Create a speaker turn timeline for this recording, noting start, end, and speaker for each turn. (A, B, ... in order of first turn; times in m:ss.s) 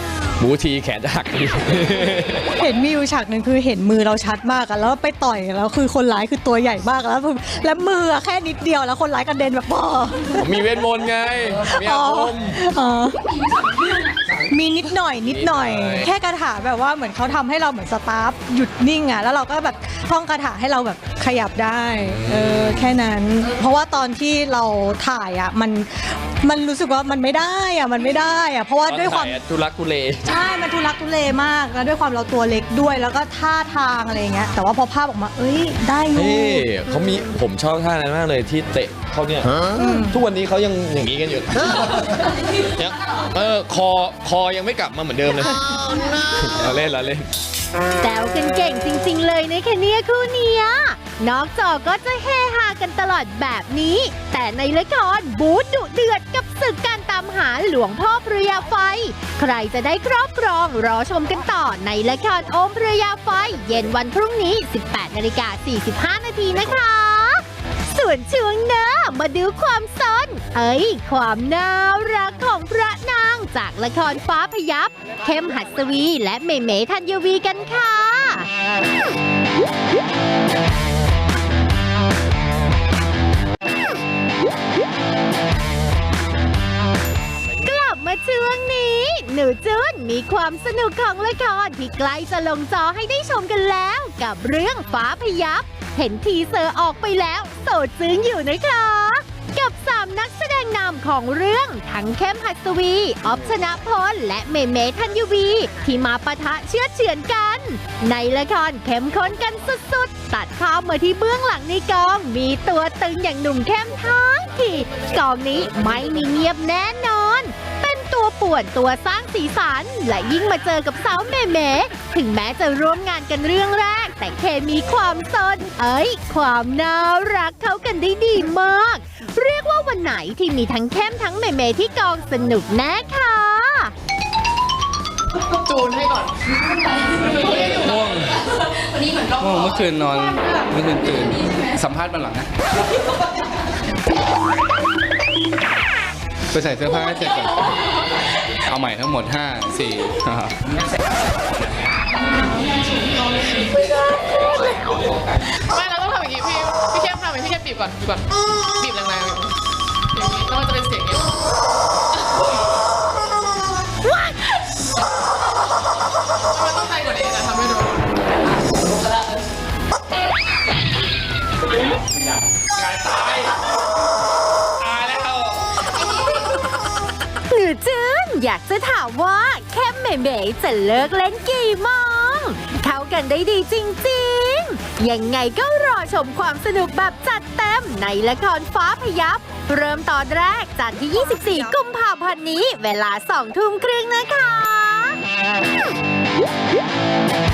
0:00.4-0:02.5 A
0:02.6-0:10.4 B
0:10.4-0:12.6 A
0:11.6-0:13.3 B
0:14.5-0:29.3 B
0:15.2-0:16.1 A
0:22.0-0:22.9 A
0:28.8-0:30.3 A
0:30.3-0:36.7 B
0:36.1-0:47.3 A
0:39.8-0:40.2 B
0:48.0-1:18.5 C
1:27.6-2:13.9 C
2:15.6-2:16.3 D
2:17.1-2:17.7 D
2:17.4-2:18.4 E
2:19.2-2:22.5 E
2:26.5-2:27.6 E
2:28.6-2:30.6 E
2:35.6-2:39.5 D
2:40.1-2:41.3 D
2:46.5-2:48.2 D
2:52.9-2:53.4 E
2:54.8-2:55.4 E
2:57.5-3:15.2 C